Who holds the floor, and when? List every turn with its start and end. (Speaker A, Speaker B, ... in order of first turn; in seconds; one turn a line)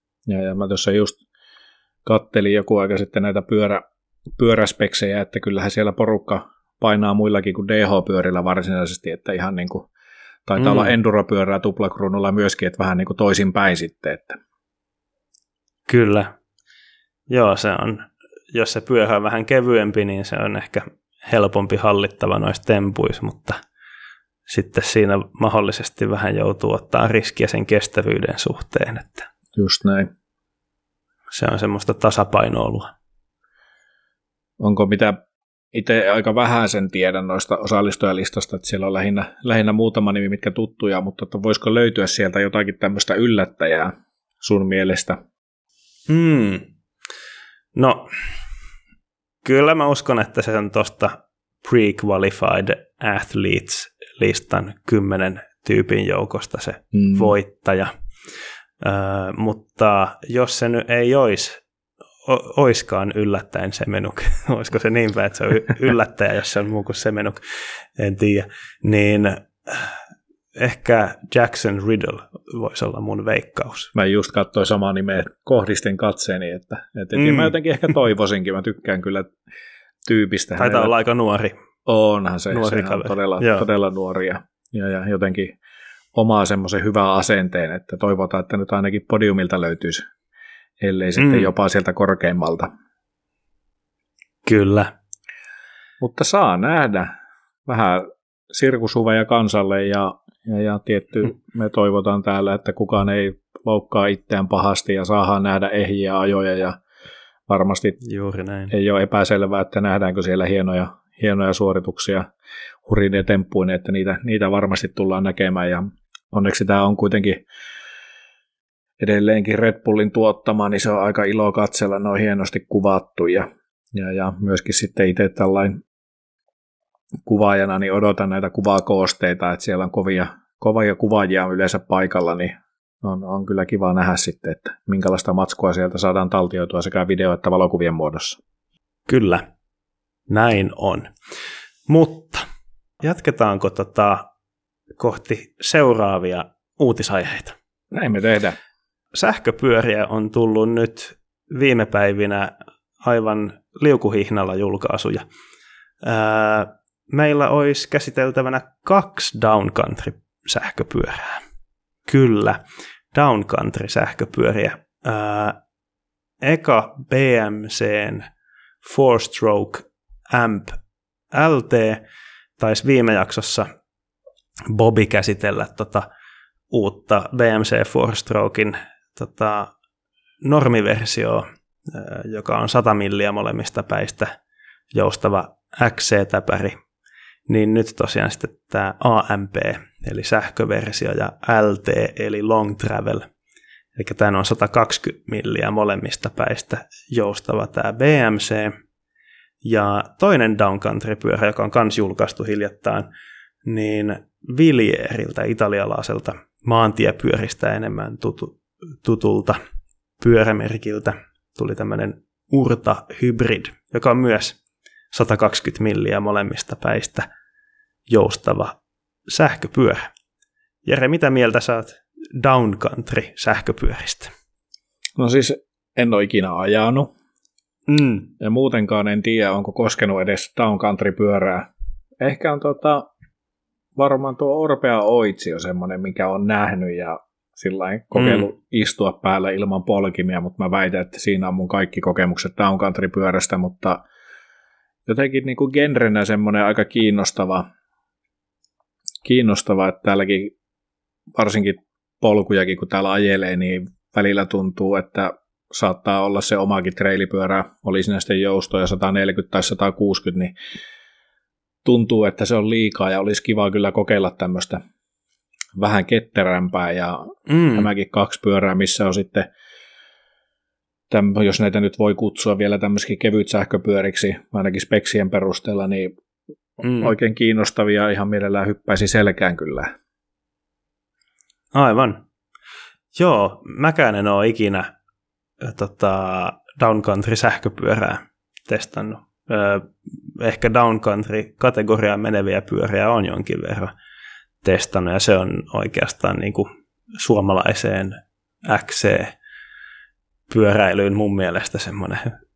Speaker A: 0.3-1.2
Speaker A: 2.0-3.8
Speaker A: 4.3-9.9
Speaker A: 10.5-14.4
Speaker B: 10.6-10.9
Speaker B: 15.9-16.3
Speaker B: 17.3-23.6
Speaker B: 24.5-29.3
Speaker A: 29.5-30.1
Speaker B: 31.3-32.9
Speaker A: 34.6-35.2
Speaker A: 35.7-45.2
Speaker B: 46.1-46.7
Speaker B: 47.7-48.1
Speaker B: 49.4-57.9
Speaker A: 56.9-57.3
Speaker B: 58.8-61.6
Speaker B: 62.2-67.4
Speaker B: 68.0-70.0
Speaker B: 70.5-73.9
Speaker A: 73.9-79.3
Speaker B: 77.1-77.5
Speaker A: 80.0-80.9
Speaker B: 80.6-81.5
Speaker A: 81.8-85.5
Speaker B: 82.5-83.6
Speaker A: 86.1-90.0
Speaker A: 90.8-92.7
Speaker B: 91.2-91.5
Speaker B: 94.4-94.9
Speaker A: 96.0-97.1
Speaker A: 97.7-106.8
Speaker A: 107.5-108.0
Speaker B: 108.0-108.7
Speaker A: 108.7-112.3
Speaker A: 112.8-117.4
Speaker A: 119.0-125.8
Speaker A: 127.2-138.4
Speaker B: 139.1-139.4
Speaker B: 140.3-141.1
Speaker B: 141.9-142.4
Speaker B: 143.0-144.3
Speaker B: 145.0-147.5
Speaker A: 147.9-148.6
Speaker B: 149.1-155.2
Speaker B: 156.0-161.4
Speaker B: 162.1-162.6
Speaker B: 163.1-165.6
Speaker B: 166.4-168.2
Speaker B: 168.8-170.8
Speaker B: 171.3-172.0
Speaker B: 172.6-173.7
Speaker B: 174.7-176.1
Speaker B: 176.7-179.7
Speaker B: 180.4-184.3
Speaker B: 184.9-186.8
Speaker B: 187.5-193.2
Speaker B: 193.9-198.7
Speaker B: 199.6-203.1
Speaker B: 203.6-209.6
Speaker B: 210.2-214.6
Speaker B: 215.1-217.3
Speaker B: 218.1-218.8
Speaker B: 219.3-220.1
Speaker B: 220.8-224.3
Speaker A: 225.2-227.1
Speaker B: 227.9-228.3
Speaker A: 228.4-233.1
Speaker A: 233.9-244.0
Speaker B: 238.2-238.5
Speaker A: 245.1-247.7
Speaker A: 249.2-250.5
Speaker A: 251.3-260.5
Speaker A: 261.8-264.8
Speaker A: 265.8-269.5
Speaker B: 267.5-267.9
Speaker A: 271.1-276.1
Speaker B: 276.8-277.1
Speaker A: 276.9-279.9
Speaker B: 281.7-282.2
Speaker B: 283.1-284.9
Speaker B: 285.6-293.9
Speaker B: 294.6-299.3
Speaker B: 300.5-302.3